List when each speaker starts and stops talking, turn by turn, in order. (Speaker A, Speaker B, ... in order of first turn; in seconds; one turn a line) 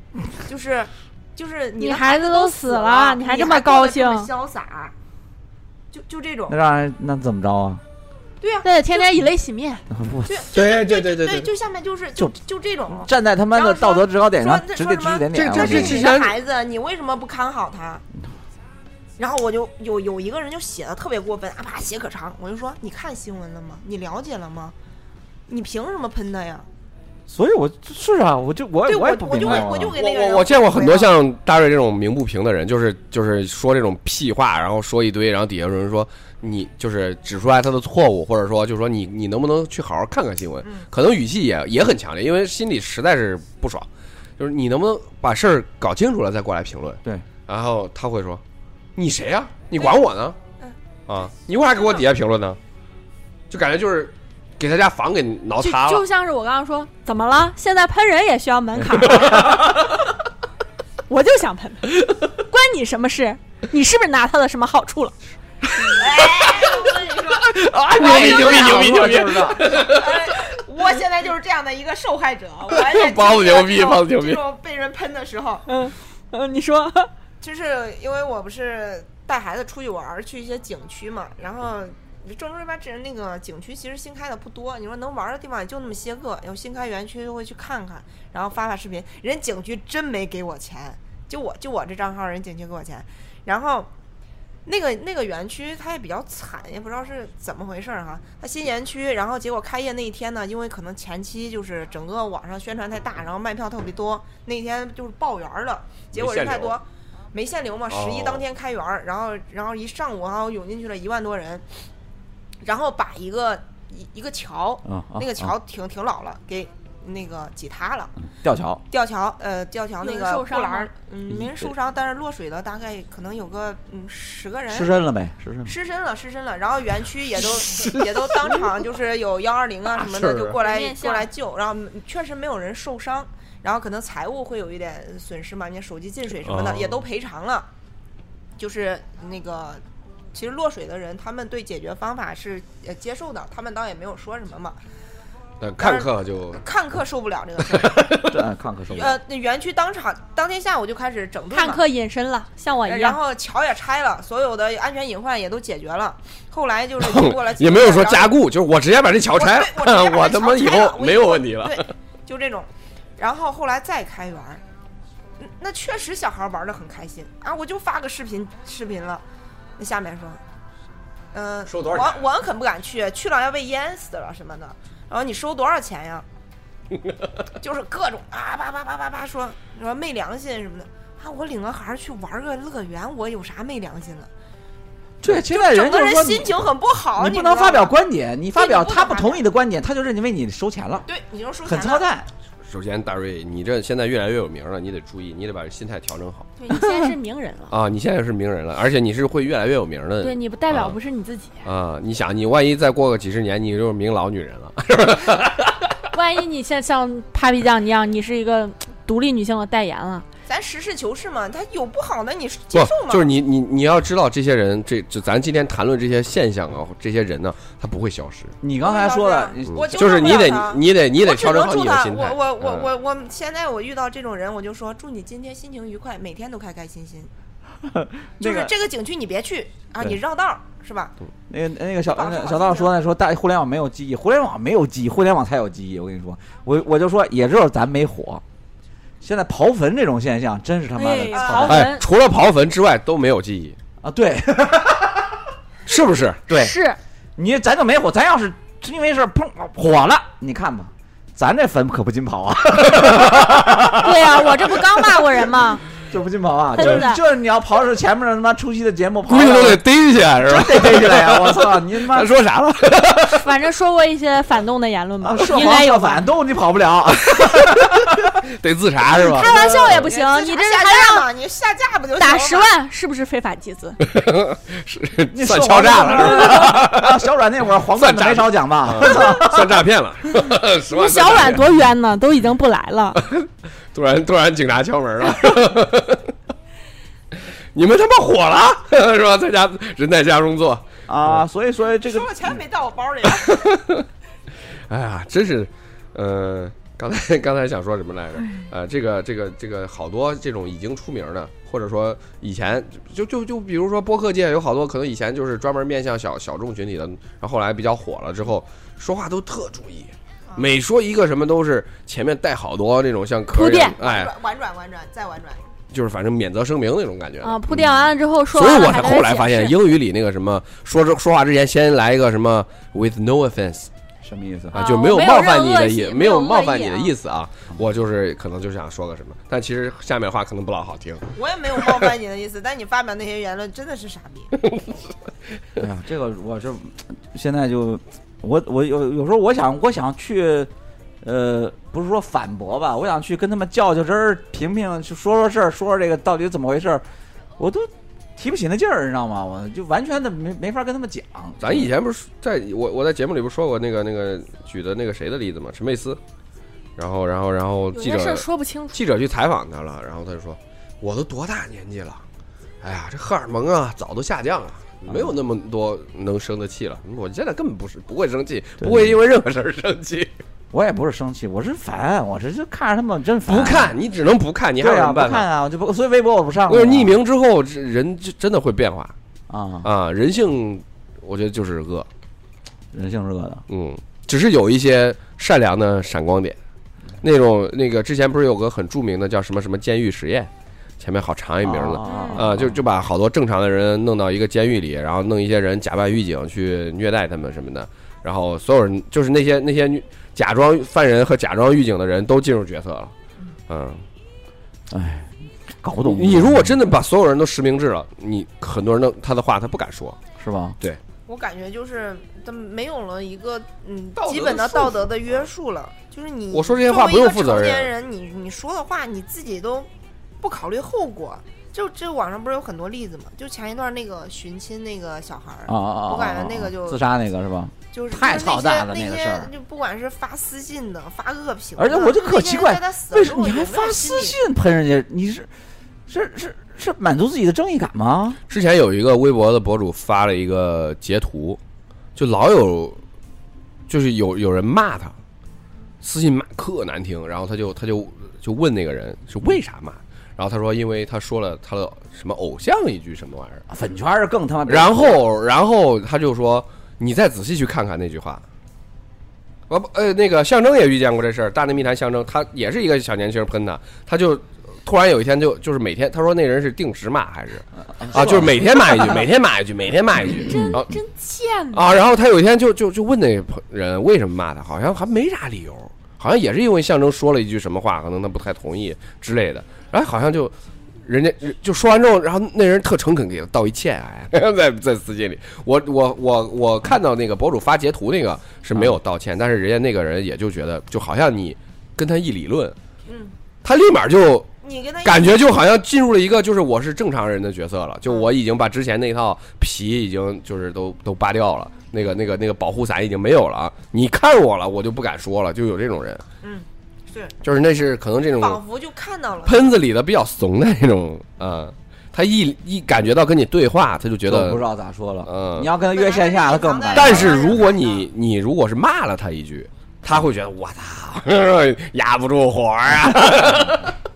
Speaker A: 0.4-4.9
Speaker B: 1.8-4.3
Speaker A: 5.9-6.6
Speaker C: 6.5-7.8
Speaker A: 8.4-9.1
Speaker B: 8.6-9.8
Speaker C: 9.9-10.5
Speaker A: 10.3-18.0
Speaker D: 10.5-11.5
Speaker C: 12.9-16.1
Speaker D: 15.3-16.4
Speaker A: 19.2-24.8
Speaker A: 25.5-26.7
Speaker C: 27.3-30.0
Speaker A: 28.9-31.1
Speaker D: 29.4-43.9
Speaker D: 44.4-48.4
Speaker D: 49.0-50.4
Speaker D: 51.1-52.6
Speaker D: 53.5-56.0
Speaker B: 55.6-59.9
Speaker B: 61.1-65.2
Speaker A: 65.8-68.8
Speaker D: 67.6-70.2
Speaker C: 67.7-69.8
Speaker A: 69.7-75.7
Speaker D: 72.7-74.4
Speaker B: 75.7-77.1
Speaker A: 77.4-93.9
Speaker A: 94.7-111.7
Speaker D: 106.1-106.8
Speaker D: 107.9-108.4
Speaker A: 112.6-118.1
Speaker C: 114.8-115.5
Speaker C: 118.4-118.8
Speaker A: 118.9-124.9
Speaker B: 120.0-120.9
Speaker C: 121.3-121.6
Speaker C: 124.7-125.7
Speaker A: 125.7-137.7
Speaker D: 127.7-128.7
Speaker D: 129.9-130.6
Speaker B: 130.6-131.3
Speaker D: 136.4-137.0
Speaker A: 138.6-139.8
Speaker A: 140.3-144.8
Speaker D: 145.6-146.6
Speaker A: 145.8-148.2
Speaker D: 147.7-148.4
Speaker C: 148.2-149.2
Speaker A: 148.9-151.8
Speaker B: 151.5-153.2
Speaker A: 152.9-158.4
Speaker D: 157.0-161.9
Speaker A: 159.3-164.6
Speaker A: 165.4-169.2
Speaker A: 169.8-170.4
Speaker A: 171.3-176.3
Speaker D: 171.7-172.2
Speaker A: 177.6-184.3
Speaker C: 185.2-191.1
Speaker A: 185.3-187.9
Speaker A: 188.6-189.5
Speaker A: 191.1-192.1
Speaker C: 191.6-192.3
Speaker D: 192.7-196.5
Speaker B: 196.6-197.8
Speaker D: 197.7-201.0
Speaker B: 200.2-201.7
Speaker D: 201.6-205.8
Speaker B: 206.1-210.3
Speaker A: 210.5-213.3
Speaker D: 212.7-218.6
Speaker C: 218.6-220.4
Speaker A: 218.8-227.3
Speaker D: 219.7-222.9
Speaker C: 227.8-228.7
Speaker A: 228.4-231.2
Speaker C: 231.5-238.4
Speaker A: 232.1-232.9
Speaker C: 239.2-241.9
Speaker B: 241.0-242.1
Speaker A: 241.3-241.7
Speaker D: 241.7-243.8
Speaker C: 244.0-245.4
Speaker D: 245.9-246.4
Speaker C: 246.5-246.8
Speaker B: 246.5-247.0
Speaker C: 247.4-254.5
Speaker D: 252.9-253.5
Speaker B: 253.9-255.8
Speaker C: 256.1-259.8
Speaker B: 256.8-257.2
Speaker D: 259.3-263.4
Speaker C: 260.4-262.3
Speaker B: 263.3-266.3
Speaker C: 265.2-268.4
Speaker D: 267.3-269.5
Speaker B: 269.1-271.3
Speaker C: 269.4-270.0
Speaker A: 269.5-272.7
Speaker B: 272.2-274.0
Speaker D: 274.0-277.2
Speaker C: 275.3-279.9
Speaker D: 278.0-281.6
Speaker B: 280.9-283.2
Speaker D: 283.2-286.3
Speaker D: 287.8-290.9
Speaker C: 291.1-292.6
Speaker A: 292.0-293.8
Speaker D: 293.3-294.1
Speaker D: 294.9-314.3
Speaker B: 313.5-314.0
Speaker A: 314.0-315.6
Speaker D: 315.9-323.9
Speaker B: 317.4-319.8
Speaker C: 324.2-324.8
Speaker D: 324.7-331.3
Speaker B: 324.7-327.1
Speaker A: 331.3-334.5
Speaker C: 335.8-340.7
Speaker C: 341.2-347.0
Speaker C: 347.6-351.9
Speaker D: 351.6-356.2
Speaker D: 357.0-362.2
Speaker B: 357.9-359.0
Speaker D: 362.8-370.3
Speaker C: 365.1-365.4
Speaker C: 368.8-369.2
Speaker C: 370.7-374.0
Speaker D: 373.5-375.5
Speaker C: 374.8-377.2
Speaker D: 376.7-379.1
Speaker C: 379.5-379.9
Speaker D: 379.8-382.1
Speaker C: 382.9-383.6
Speaker D: 383.7-386.6
Speaker D: 387.2-403.1
Speaker C: 391.6-392.8
Speaker B: 392.0-392.4
Speaker D: 403.7-404.1
Speaker C: 404.9-406.8
Speaker D: 406.0-410.2
Speaker C: 410.4-410.8
Speaker A: 411.3-419.9
Speaker D: 414.2-415.5
Speaker D: 416.5-417.9
Speaker A: 420.4-427.0
Speaker C: 425.7-429.5
Speaker A: 427.9-434.4
Speaker C: 431.8-435.5
Speaker C: 436.1-438.4
Speaker D: 438.5-441.6
Speaker D: 442.2-443.0
Speaker D: 443.9-445.1
Speaker D: 446.0-453.6
Speaker C: 453.7-455.2
Speaker D: 454.7-458.4
Speaker D: 459.7-470.9
Speaker C: 467.9-469.2
Speaker B: 470.4-471.9
Speaker C: 470.5-470.8
Speaker D: 471.7-480.5
Speaker D: 481.1-492.8
Speaker A: 493.1-493.3
Speaker D: 493.6-494.5
Speaker A: 494.6-495.4
Speaker D: 495.0-506.2
Speaker A: 498.1-498.3
Speaker A: 506.4-507.4
Speaker D: 507.4-508.6
Speaker A: 508.4-509.8
Speaker D: 509.4-514.6
Speaker C: 514.3-517.5
Speaker D: 515.3-515.7
Speaker A: 515.8-518.1
Speaker D: 516.9-524.0
Speaker C: 523.3-523.8